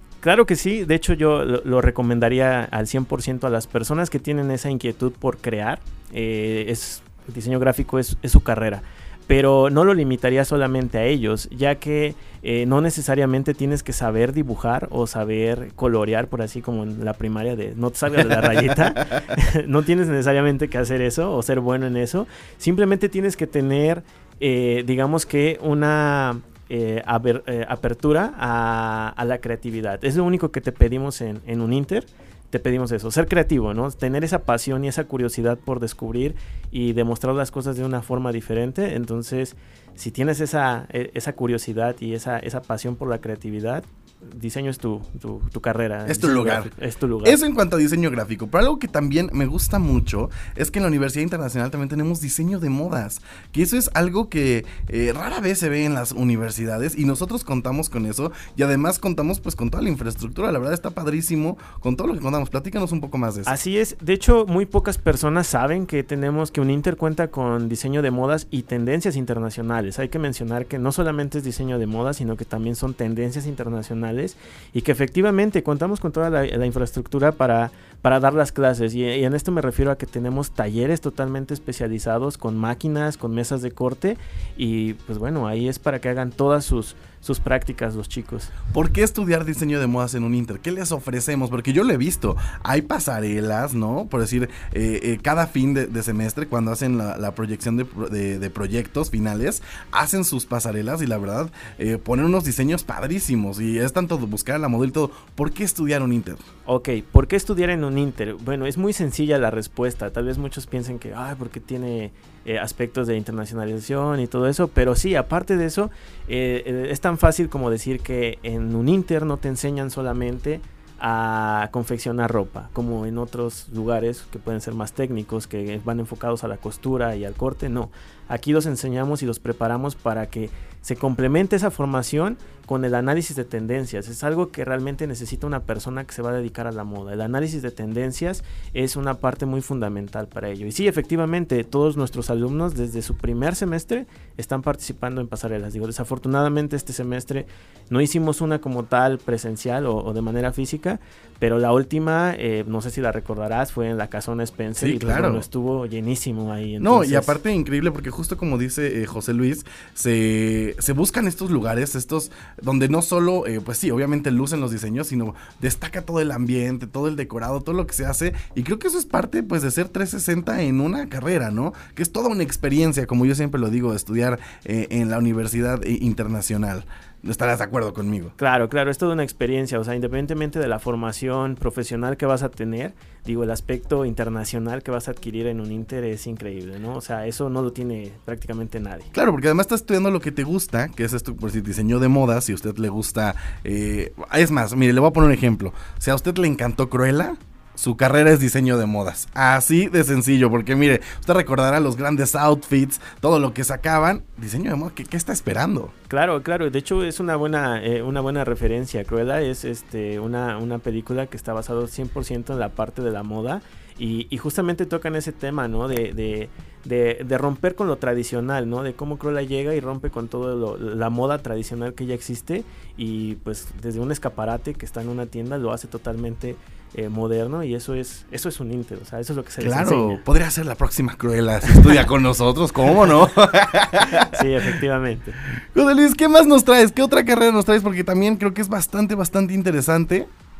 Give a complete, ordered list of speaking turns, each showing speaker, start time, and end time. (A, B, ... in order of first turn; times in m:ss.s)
0:00.2-0:47.4 A
0:46.1-0:46.7 B
0:47.2-1:03.5 B
1:03.4-1:28.5 A
1:28.7-1:46.4 B
1:46.6-2:37.4 A
2:34.8-2:35.4 B
2:36.8-2:58.3 B
2:58.4-3:09.1 A
3:09.1-3:25.9 B
3:26.1-3:50.2 A
3:49.6-3:54.4 B
3:51.7-3:52.0 A
3:54.1-3:55.4 A
3:55.6-4:00.3 B